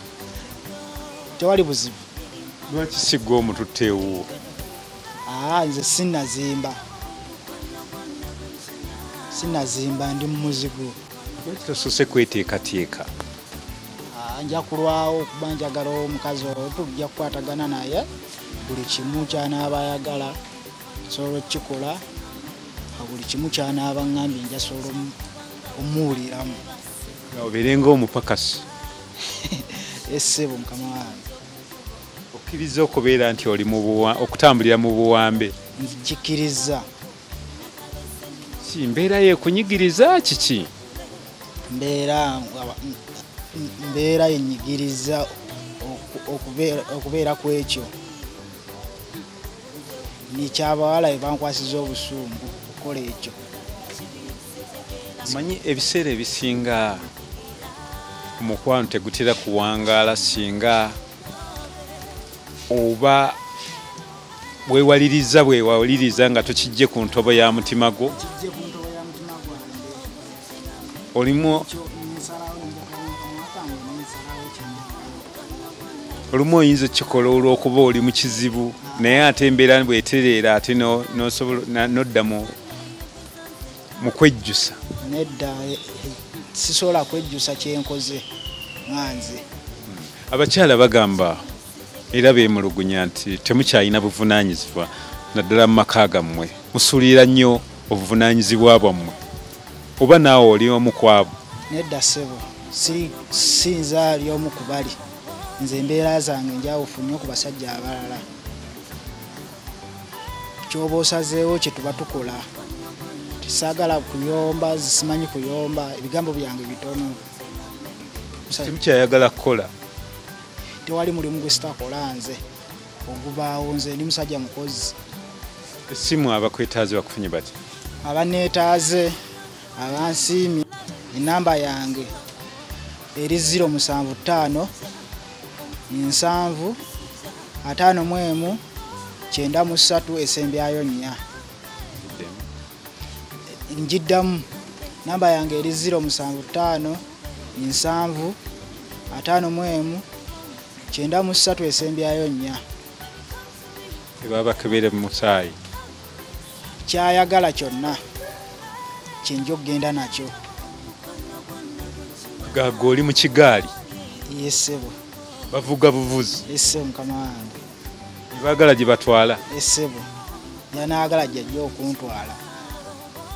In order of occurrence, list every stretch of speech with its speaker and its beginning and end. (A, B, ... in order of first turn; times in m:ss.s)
0:01.4-0:02.0 A
0:02.7-0:04.3 B
0:05.3-0:06.8 A
0:09.3-0:11.0 A
0:11.4-0:13.1 B
0:14.1-0:18.1 A
0:18.6-0:20.4 A
0:21.1-0:22.0 A
0:22.9-0:25.2 A
0:25.8-0:26.6 A
0:27.3-0:28.6 B
0:29.4-0:31.2 A
0:32.3-0:35.5 B
0:35.8-0:36.8 A
0:38.6-0:40.7 B
0:41.7-0:43.0 A
0:43.5-0:47.9 A
0:50.3-0:53.4 A
0:55.2-0:57.1 B
0:58.4-1:01.0 B
1:02.7-1:03.4 B
1:04.6-1:08.1 B
1:08.1-1:10.1 A
1:11.1-1:11.7 B
1:11.4-1:15.3 A
1:16.3-1:22.5 B
1:18.8-1:19.2 A
1:24.0-1:24.8 B
1:25.0-1:28.2 A
1:28.9-1:29.4 A
1:29.9-1:31.4 B
1:32.1-1:39.2 B
1:40.0-1:41.3 B
1:41.7-1:45.0 A
1:45.6-1:48.2 A
1:50.7-1:52.4 A
1:53.4-1:57.2 A
1:58.5-1:58.7 A
1:58.6-1:59.7 B
2:00.8-2:02.4 A
2:03.0-2:04.9 A
2:05.9-2:07.5 B
2:08.0-2:09.2 A
2:09.8-2:12.1 A
2:13.2-2:14.7 A
2:15.9-2:16.8 A
2:17.6-2:18.6 A
2:19.3-2:21.2 A
2:22.0-2:22.4 B
2:23.7-2:24.5 A
2:25.0-2:27.0 A
2:27.6-2:28.4 A
2:29.1-2:30.0 A
2:30.9-2:32.6 A
2:34.2-2:35.6 B
2:36.8-2:38.0 A
2:39.2-2:40.3 A
2:42.4-2:43.7 B
2:44.3-2:44.9 A
2:45.5-2:46.4 B
2:46.5-2:47.6 A
2:48.3-2:49.4 B
2:49.5-2:50.1 A
2:50.7-2:52.4 A